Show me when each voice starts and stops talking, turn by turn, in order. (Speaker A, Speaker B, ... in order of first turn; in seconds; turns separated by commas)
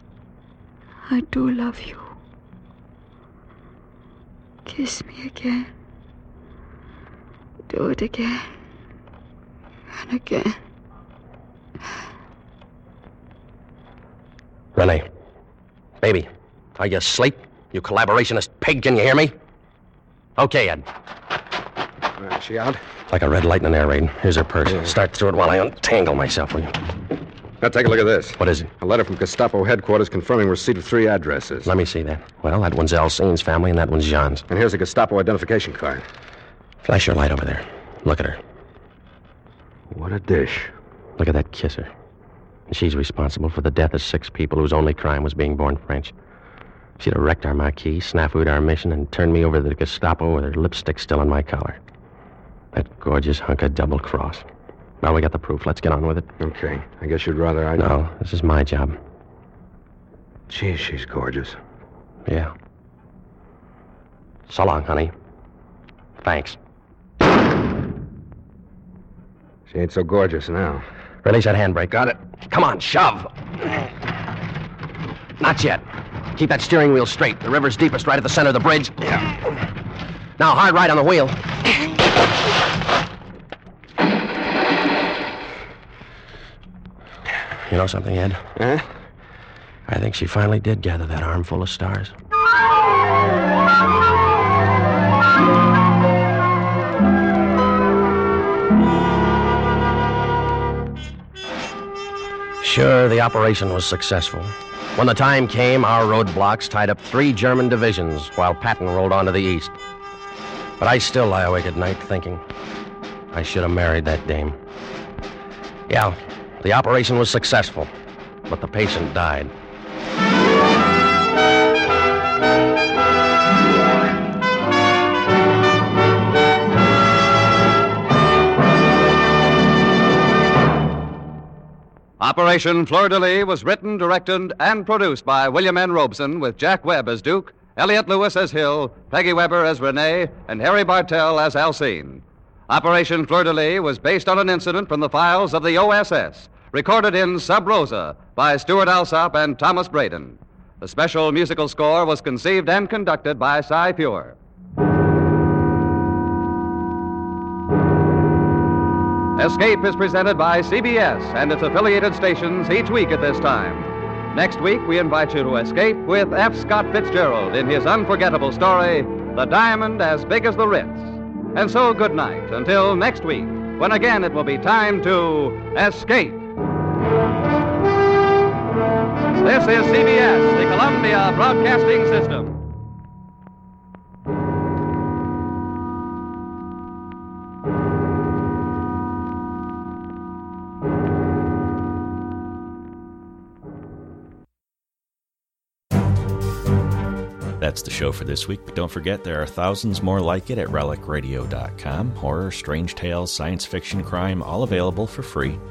Speaker A: 1.1-2.1, Speaker A: 4.7-5.7, Speaker A: 7.7-8.5, Speaker A: 9.9-10.6, Speaker B: 14.8-15.1, Speaker B: 16.0-19.4, Speaker B: 20.4-20.9, Speaker C: 22.2-22.8, Speaker B: 23.1-26.8, Speaker C: 27.6-31.7, Speaker B: 28.4-28.7, Speaker B: 31.6-34.5, Speaker C: 34.5-36.0, Speaker B: 36.8-38.4, Speaker C: 39.9-40.7, Speaker B: 41.2-41.9, Speaker B: 42.7-46.1, Speaker B: 47.0-51.8, Speaker B: 52.7-54.4, Speaker B: 55.0-56.3, Speaker C: 56.4-57.9, Speaker B: 57.8-59.0, Speaker C: 60.5-61.6, Speaker B: 62.3-62.5, Speaker B: 64.5-65.1, Speaker B: 66.2-66.6, Speaker C: 69.7-70.8, Speaker B: 71.2-73.8, Speaker C: 71.9-72.2, Speaker B: 75.4-75.8, Speaker B: 76.4-79.2, Speaker B: 80.4-81.4, Speaker B: 87.7-88.4, Speaker C: 88.6-88.8, Speaker B: 89.9-92.1, Speaker B: 102.6-109.8, Speaker B: 110.8-112.4, Speaker B: 113.3-114.6, Speaker B: 115.9-117.9, Speaker B: 118.5-119.5, Speaker D: 132.2-154.3, Speaker D: 159.4-176.4, Speaker D: 179.3-182.6, Speaker E: 197.6-205.6